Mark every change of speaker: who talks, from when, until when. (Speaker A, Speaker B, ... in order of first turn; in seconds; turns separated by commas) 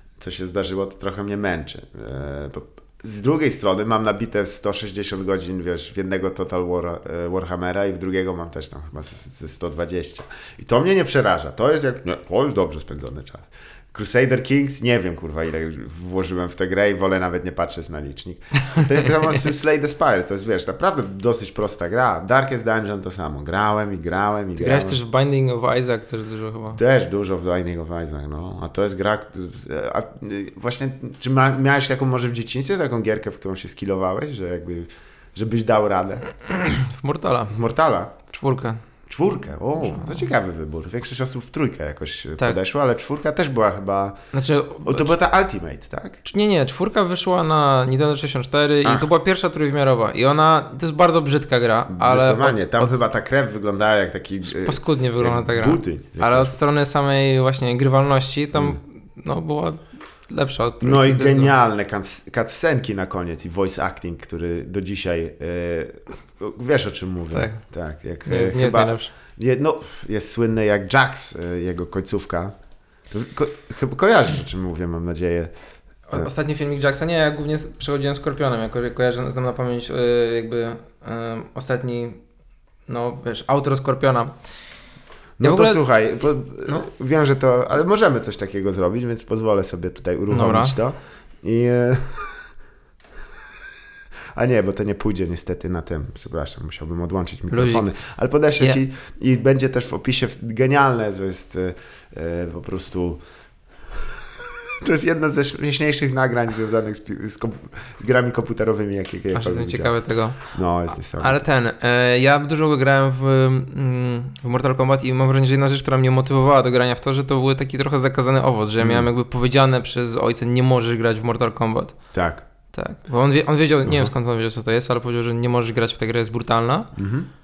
Speaker A: 0.2-25.0, Speaker B: 24.6-26.8, Speaker A: 26.8-36.3, Speaker B: 36.5-37.5, Speaker A: 37.5-38.2, Speaker B: 38.3-38.8, Speaker A: 39.1-44.2, Speaker B: 39.8-40.2, Speaker B: 44.3-45.1, Speaker A: 44.8-46.2, Speaker B: 46.2-53.0, Speaker A: 51.9-56.5, Speaker B: 54.5-61.5, Speaker A: 60.8-72.5, Speaker B: 67.3-67.6, Speaker B: 68.2-69.1, Speaker A: 73.1-75.5, Speaker B: 76.1-82.2, Speaker B: 82.9-84.3, Speaker A: 85.4-92.4, Speaker B: 85.4-85.8, Speaker B: 90.3-90.8, Speaker A: 94.3-103.2, Speaker B: 97.5-97.9, Speaker A: 104.8-111.4, Speaker B: 109.3-110.5, Speaker B: 111.2-122.0, Speaker A: 118.8-119.1, Speaker A: 122.1-122.4, Speaker B: 122.7-126.9, Speaker A: 127.0-127.3